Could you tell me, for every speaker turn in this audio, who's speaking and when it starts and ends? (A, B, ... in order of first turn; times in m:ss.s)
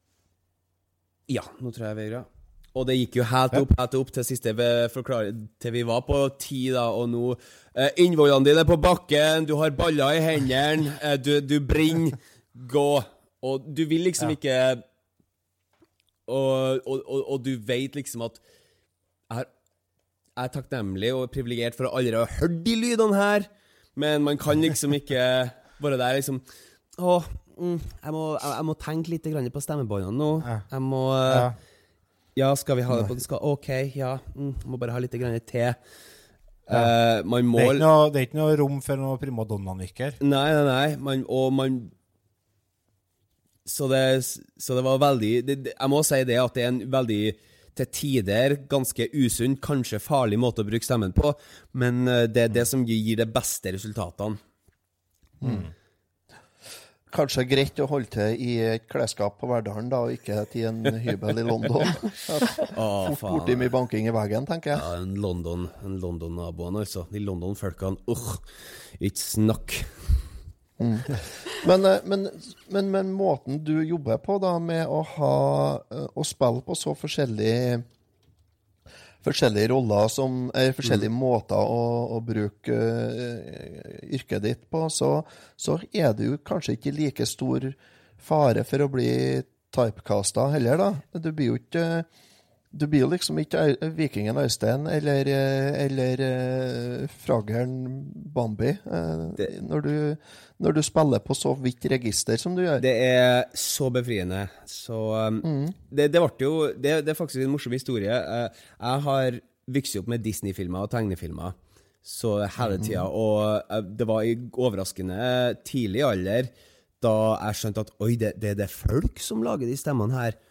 0:01.3-0:14.8 A
0:16.3-0:18.4 A
0:20.4-0:26.4 A
0:27.0-0:31.5 A
0:31.3-0:31.5 B
0:32.4-0:35.8 A
0:36.6-0:37.8 A
0:37.5-0:40.2 B
0:40.2-0:41.9 A
0:43.6-0:54.4 A
0:55.4-0:55.7 C
0:57.1-1:04.8 C
1:02.7-1:03.7 A
1:04.7-1:08.4 A
1:09.0-1:10.2 A
1:10.8-1:17.8 C
1:19.2-1:32.1 C
1:32.7-1:42.8 C
1:42.8-2:00.4 A
1:45.4-1:45.7 C
1:52.8-1:53.1 C